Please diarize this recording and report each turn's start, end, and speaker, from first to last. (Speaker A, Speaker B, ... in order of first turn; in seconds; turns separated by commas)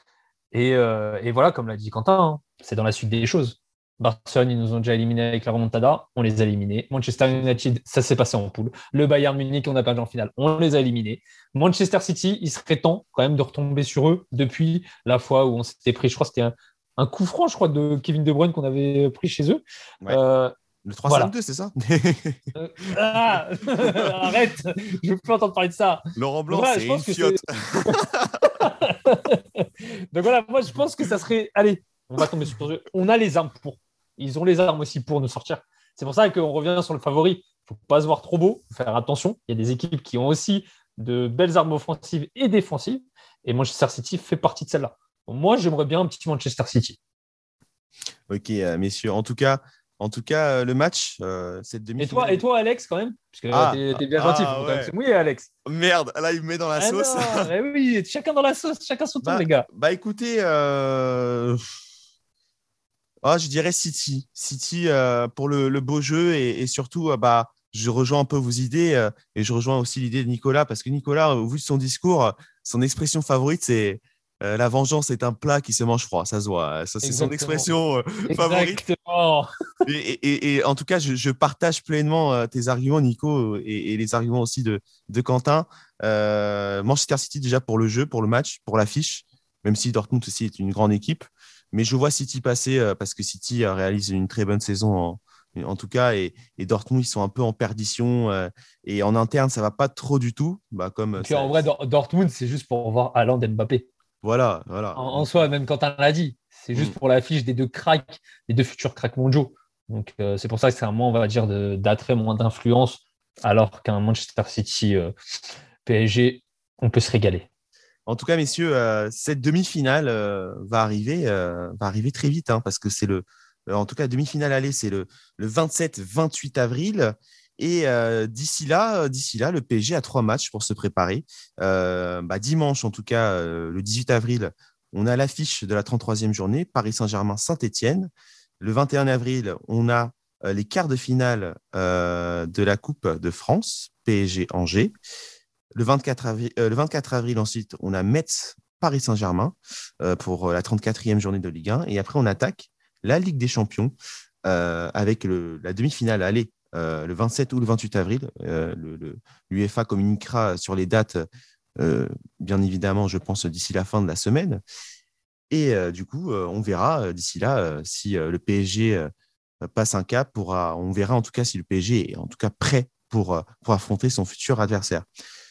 Speaker A: 0.5-20.5, Speaker B: 20.9-22.4, Speaker A: 21.1-21.3, Speaker A: 22.6-47.0, Speaker B: 26.2-28.5, Speaker B: 48.3-52.4, Speaker A: 52.0-55.5, Speaker B: 53.5-54.9, Speaker B: 55.7-57.5, Speaker A: 56.8-59.7, Speaker B: 59.2-61.7, Speaker B: 63.2-78.8, Speaker A: 77.0-77.7, Speaker A: 78.3-79.5, Speaker B: 79.9-101.7, Speaker A: 101.2-103.9, Speaker B: 104.2-105.3, Speaker A: 105.0-115.1, Speaker A: 115.8-117.5, Speaker B: 118.1-138.1, Speaker B: 138.6-144.9, Speaker B: 145.7-161.3, Speaker B: 161.8-164.6, Speaker B: 165.5-169.1, Speaker B: 169.6-175.1